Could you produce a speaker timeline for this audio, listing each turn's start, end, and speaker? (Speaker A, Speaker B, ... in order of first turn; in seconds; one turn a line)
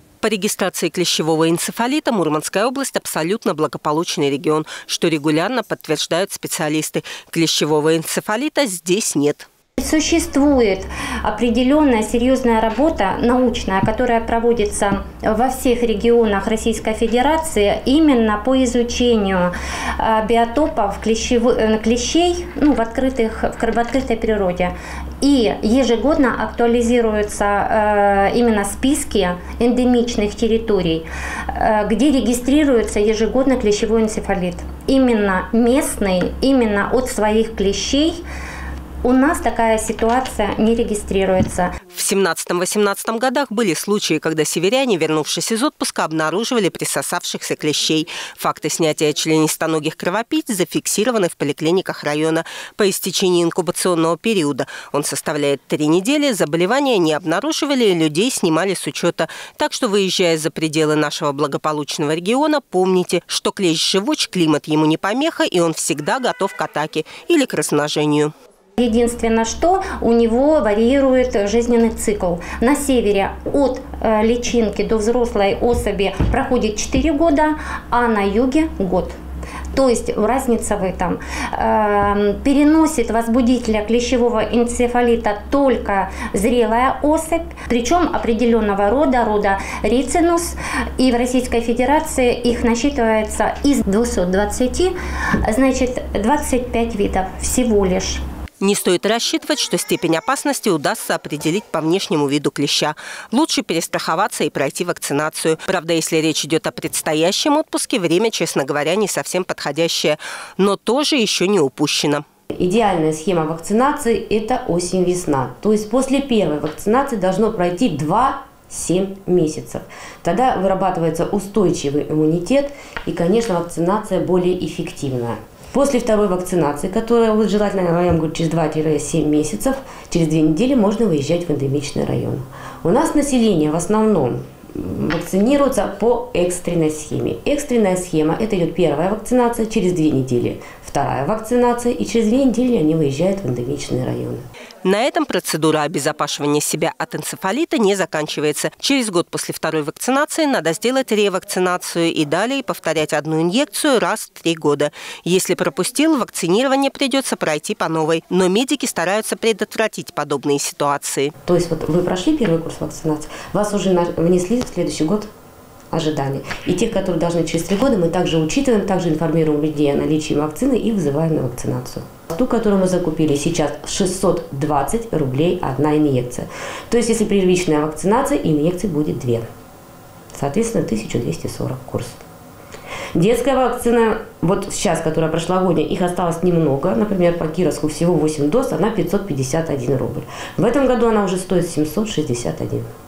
Speaker A: 0.2-9.5
Speaker B: 9.8-38.2
Speaker B: 39.0-41.8
Speaker A: 41.9-68.3
Speaker B: 68.8-79.2
Speaker B: 79.7-94.9
Speaker B: 95.4-98.2
Speaker A: 98.6-112.2
Speaker C: 112.6-144.4
Speaker A: 144.8-161.3
Speaker C: 161.4-165.3
Speaker C: 165.9-179.4
Speaker C: 180.3-182.2
Speaker C: 183.1-192.9